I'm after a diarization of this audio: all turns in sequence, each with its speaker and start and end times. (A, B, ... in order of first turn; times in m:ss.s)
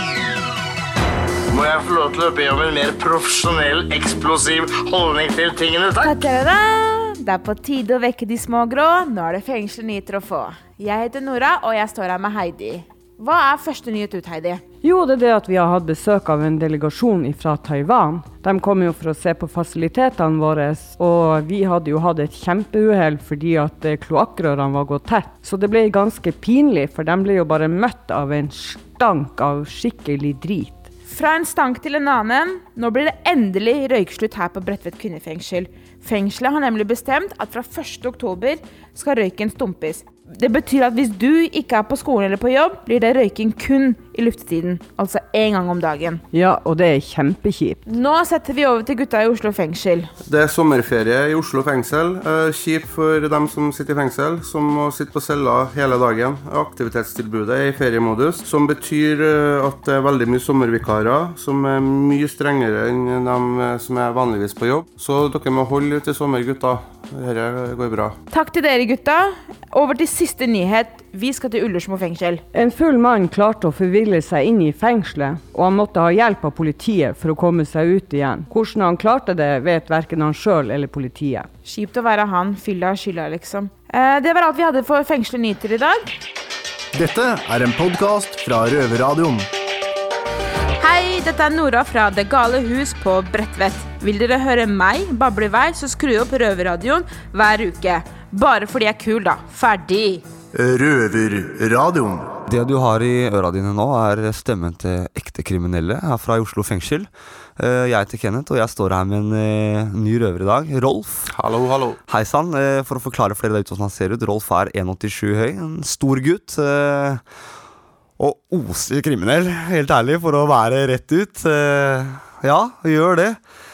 0:01.5-0:06.2 A
0:06.0-0:14.6 B
0:14.8-0:30.9 C
0:31.1-0:46.2 B
0:46.3-0:47.8 C
0:47.9-0:50.1 B
0:50.3-1:08.2 D
1:08.3-1:12.4 B
1:12.5-1:21.5 C
1:21.6-1:26.1 B
1:26.9-1:29.5 E
1:30.8-1:40.2 B
1:40.6-1:42.3 E
1:42.5-1:51.3 F
1:51.3-1:52.0 D
1:52.1-1:57.2 F
1:58.2-2:03.4 F